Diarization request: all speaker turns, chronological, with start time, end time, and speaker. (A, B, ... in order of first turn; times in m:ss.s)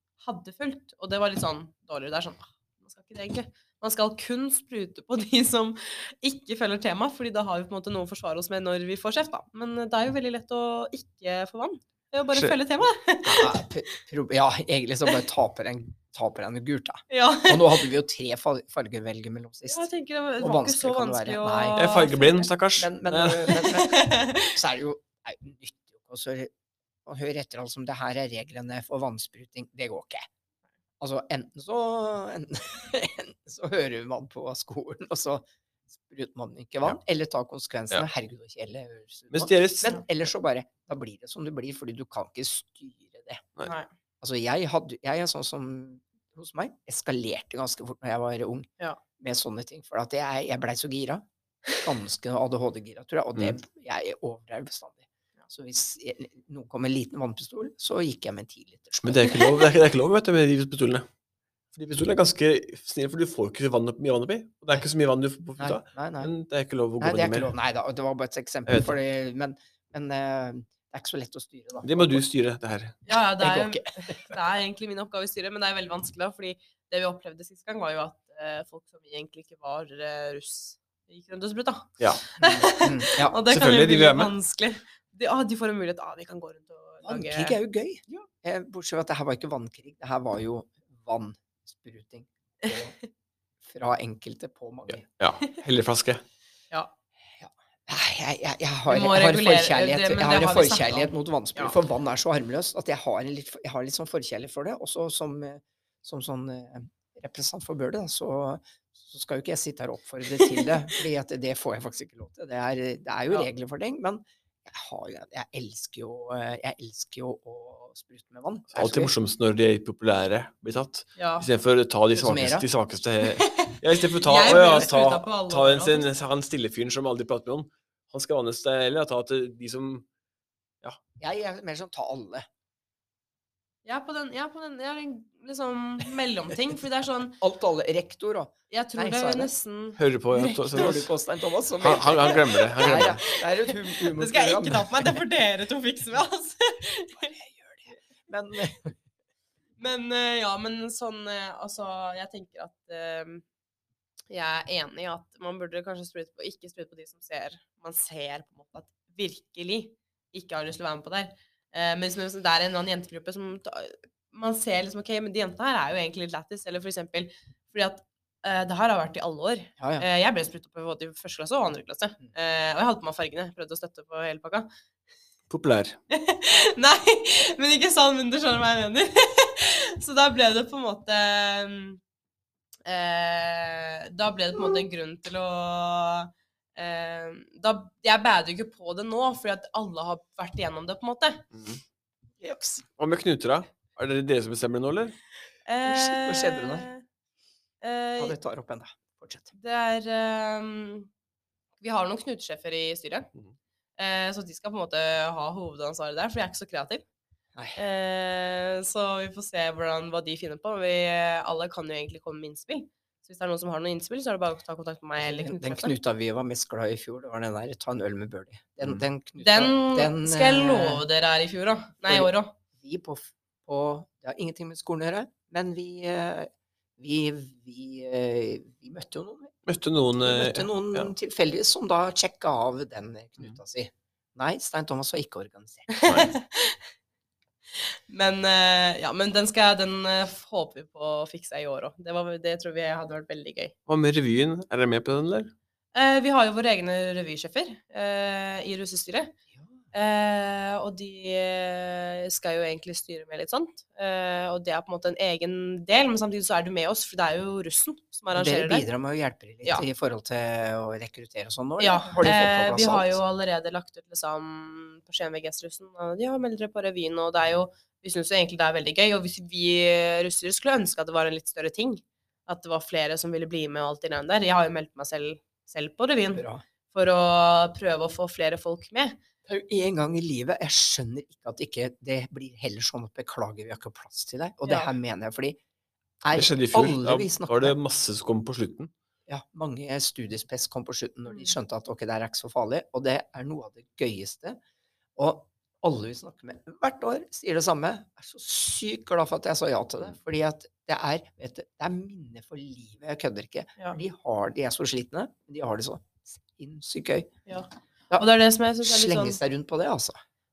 0:00.2-0:13.6 A
0:13.2-0:19.9 B
0:17.1-0:17.9 A
0:19.7-0:22.5 A
0:20.4-0:21.9 B
0:21.8-0:23.6 C
0:22.8-0:26.5 B
0:23.5-0:24.6 A
0:27.1-0:30.2 B
0:31.0-0:35.4 B
0:36.0-0:43.4 B
0:39.3-0:40.0 C
0:43.6-0:43.9 A
0:44.2-0:48.7 B
0:49.2-0:51.2 B
0:51.8-0:59.5 B
0:59.0-1:01.1 C
1:01.7-1:07.5 C
1:05.6-1:06.3 B
1:07.0-1:12.2 B
1:08.7-1:09.0 C
1:11.8-1:13.0 C
1:13.1-1:27.6 A
1:13.4-1:14.2 B
1:22.4-1:23.4 B
1:23.5-1:24.3 C
1:27.0-1:33.0 B
1:33.6-1:35.0 B
1:34.9-1:36.2 C
1:37.4-1:59.1 B
1:38.9-1:41.8 A
1:50.4-1:50.7 A
1:58.7-2:10.1 C
2:01.2-2:01.5 A
2:02.1-2:02.7 B
2:03.4-2:06.1 A
2:04.6-2:04.8 B
2:11.2-2:12.5 B
2:13.8-2:17.4 A
2:17.4-2:19.5 B
2:18.7-2:20.9 A
2:20.0-2:21.1 C
2:20.7-2:25.2 B
2:21.8-2:23.2 C
2:22.3-2:22.6 A
2:23.2-2:27.4 A
2:27.2-2:29.0 B
2:29.8-2:33.4 A
2:34.3-2:54.7 A
2:49.8-2:50.1 B
2:55.5-2:56.0 C
2:56.1-3:02.0 A
3:02.9-3:11.5 A
3:11.5-3:11.8 C
3:13.0-3:15.2 C
3:15.7-3:17.0 A
3:15.8-3:16.9 B
3:17.8-3:18.4 A
3:18.2-3:19.5 B
3:19.6-3:21.1 A
3:21.8-3:23.3 A
3:24.0-3:27.0 A
3:27.8-3:35.9 A
3:35.2-3:41.0 B
3:39.4-3:42.5 A
3:42.1-3:49.5 B
3:49.7-3:51.1 C
3:50.2-3:55.9 B
3:55.9-3:56.8 A
3:57.8-4:03.7 A
4:03.9-4:05.5 C
4:05.9-4:09.4 A
4:09.9-4:18.9 A
4:18.3-4:23.2 B
4:21.8-4:39.2 A
4:36.3-4:36.6 B
4:39.5-4:45.6 B
4:44.6-4:44.9 A
4:46.2-4:47.8 B
4:46.3-4:48.9 C
4:49.3-4:54.6 B
4:55.2-5:07.3 B
5:07.5-5:09.4 A
5:08.8-5:10.2 B